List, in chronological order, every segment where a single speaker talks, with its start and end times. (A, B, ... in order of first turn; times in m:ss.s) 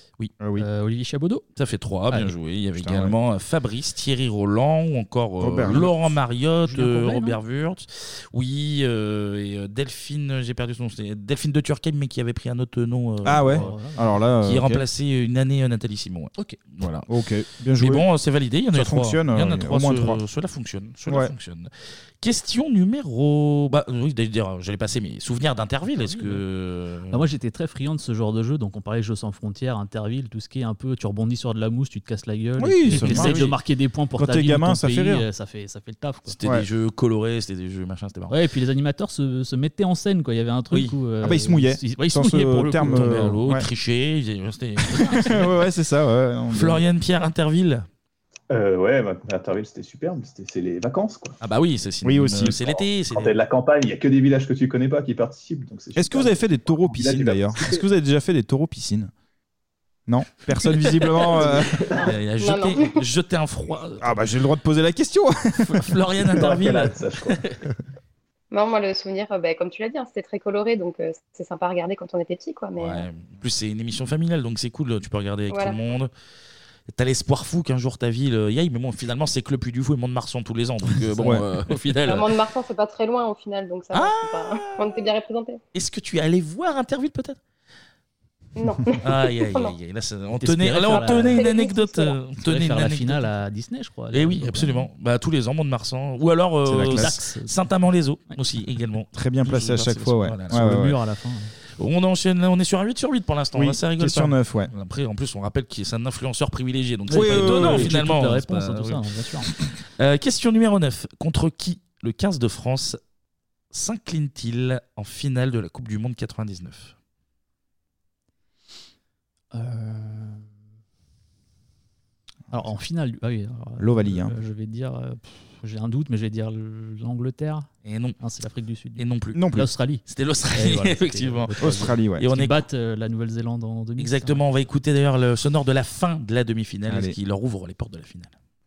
0:00.4-0:00.7 A
0:00.6-0:01.4 B
0:01.6-0:13.8 C
0:02.8-0:03.1 A
0:05.4-0:05.9 A
0:06.6-0:07.4 B
0:13.2-0:14.8 A
0:13.4-0:14.2 B
0:14.4-0:17.1 C
0:17.1-0:18.1 A
0:17.8-0:27.2 C
0:18.7-0:20.2 A
0:21.1-0:21.3 A
0:26.0-0:26.4 B
0:27.1-0:36.4 B
0:32.6-0:33.5 A
0:32.9-0:33.5 C
0:34.2-0:35.3 A
0:36.3-0:38.4 C
0:38.3-0:43.2 B
0:41.2-0:43.6 A
0:42.9-0:45.5 C
0:45.0-0:46.8 A
0:46.5-0:47.9 C
0:48.5-0:51.4 D
0:51.4-0:53.4 C
0:52.0-0:52.6 A
0:52.6-0:57.8 D
0:56.0-0:59.1 A
1:00.1-1:01.8 A
1:00.6-1:04.2 C
1:01.4-1:02.0 D
1:02.0-1:03.0 E
1:04.0-1:05.8 A
1:05.7-1:07.6 C
1:06.3-1:07.4 D
1:08.5-1:13.1 E
1:12.8-1:16.1 C
1:15.5-1:15.8 E
1:16.9-1:22.3 C
1:21.2-1:21.4 A
1:22.1-1:25.6 E
1:23.9-1:25.0 C
1:25.7-1:27.4 C
1:28.6-1:29.7 E
1:29.0-1:33.3 C
1:30.4-1:31.5 B
1:30.9-1:32.2 E
1:32.4-1:34.9 B
1:34.1-1:40.6 C
1:36.7-1:37.2 A
1:36.9-1:37.6 B
1:39.1-1:41.0 A
1:40.5-1:41.5 B
1:41.8-1:49.0 C
1:43.5-1:44.7 A
1:47.1-1:47.9 A
1:47.1-1:49.5 B
1:50.0-1:53.0 C
1:53.7-1:56.9 C
1:59.5-2:00.4 B
2:02.5-2:07.7 B
2:03.8-2:04.4 A
2:07.8-2:08.2 C
2:08.2-2:14.4 B
2:09.0-2:09.4 C
2:09.4-2:09.7 A
2:10.1-2:11.6 C
2:11.6-2:12.3 A
2:12.2-2:12.6 C
2:14.0-2:18.4 C
2:16.9-2:17.2 A